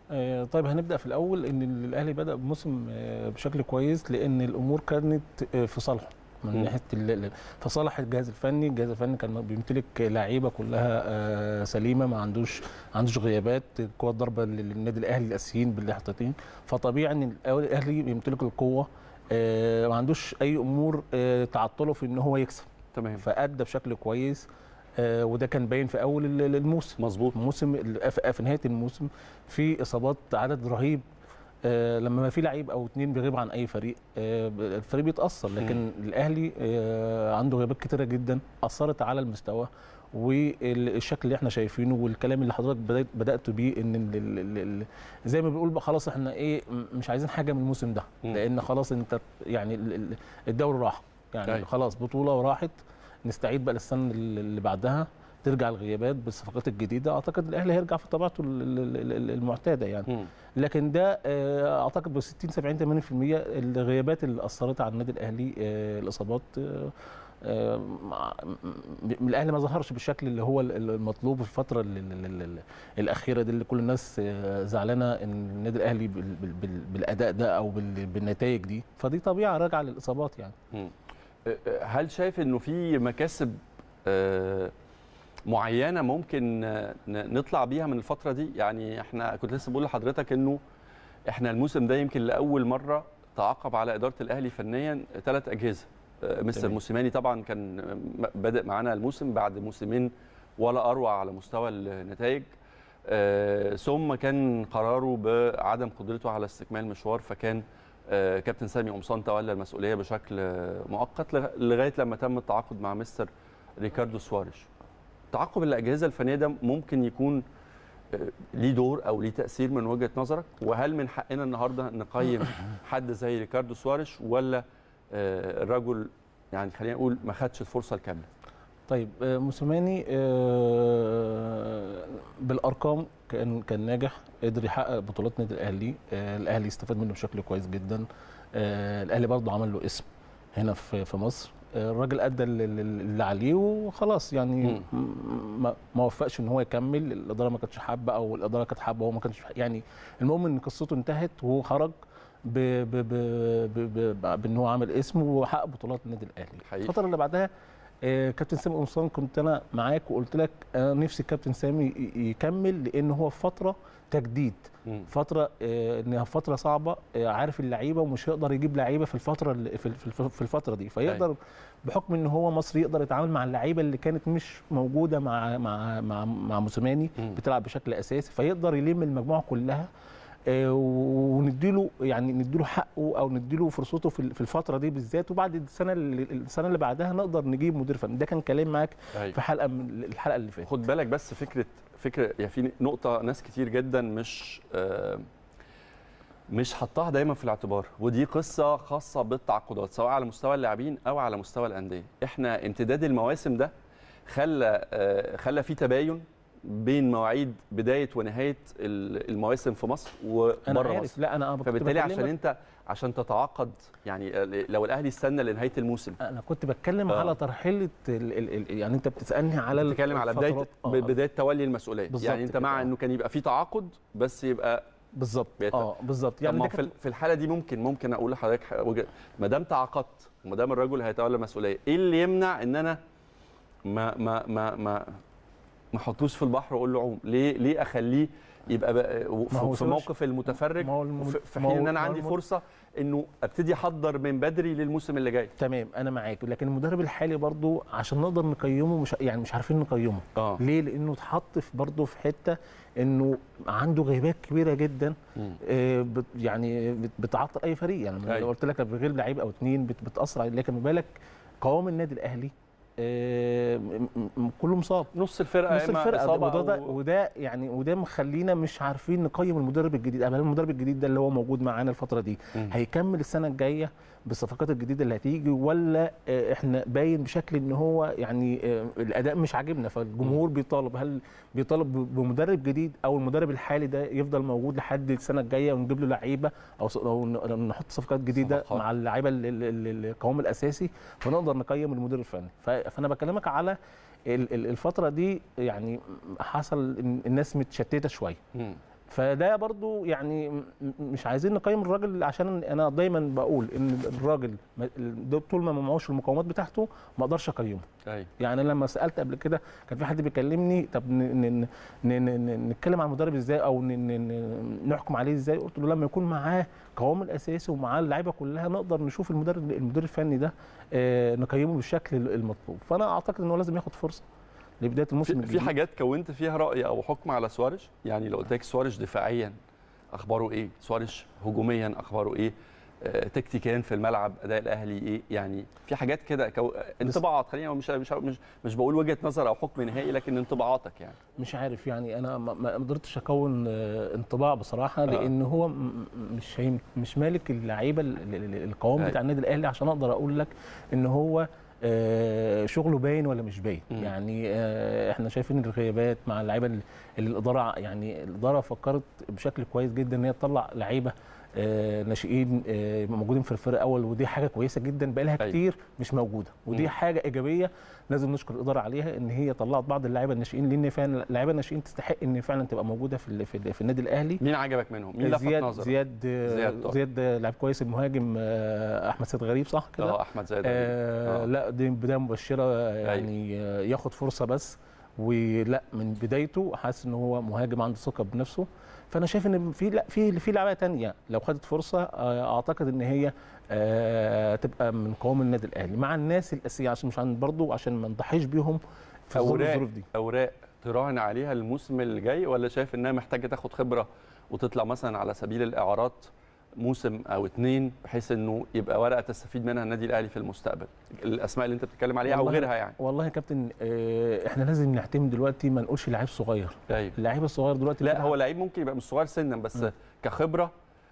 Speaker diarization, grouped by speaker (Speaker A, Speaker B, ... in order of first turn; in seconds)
Speaker A: 0.1-24.4, 25.0-31.0, 31.6-80.6, 128.9-157.5, 158.0-179.9, 180.5-190.7, 210.7-212.3, 216.2-221.2, 222.1-222.9, 225.2-226.9, 239.5-240.1, 240.8-242.4, 245.6-265.1, 265.7-298.4, 299.1-307.9, 308.4-324.2, 324.8-325.7, 341.4-374.4, 375.2-400.1, 412.2-418.4
Speaker B: 22.9-23.2, 27.0-27.3, 81.5-84.7, 85.5-90.6, 91.3-102.5, 103.1-114.7, 115.3-117.4, 118.1-128.3, 156.7-157.0, 190.7-195.3, 196.5-203.7, 204.3-216.2, 217.1-217.4, 219.8-224.8, 225.6-225.9, 226.4-233.0, 233.9-235.2, 235.9-245.5, 250.4-250.6, 265.1-266.9, 288.4-288.8, 298.6-298.8, 308.1-308.3, 325.2-329.5, 330.1-341.2, 374.4-375.9, 376.4-376.9, 380.0-381.5, 383.0-383.3, 399.4-413.0, 416.9-417.2, 418.0-420.7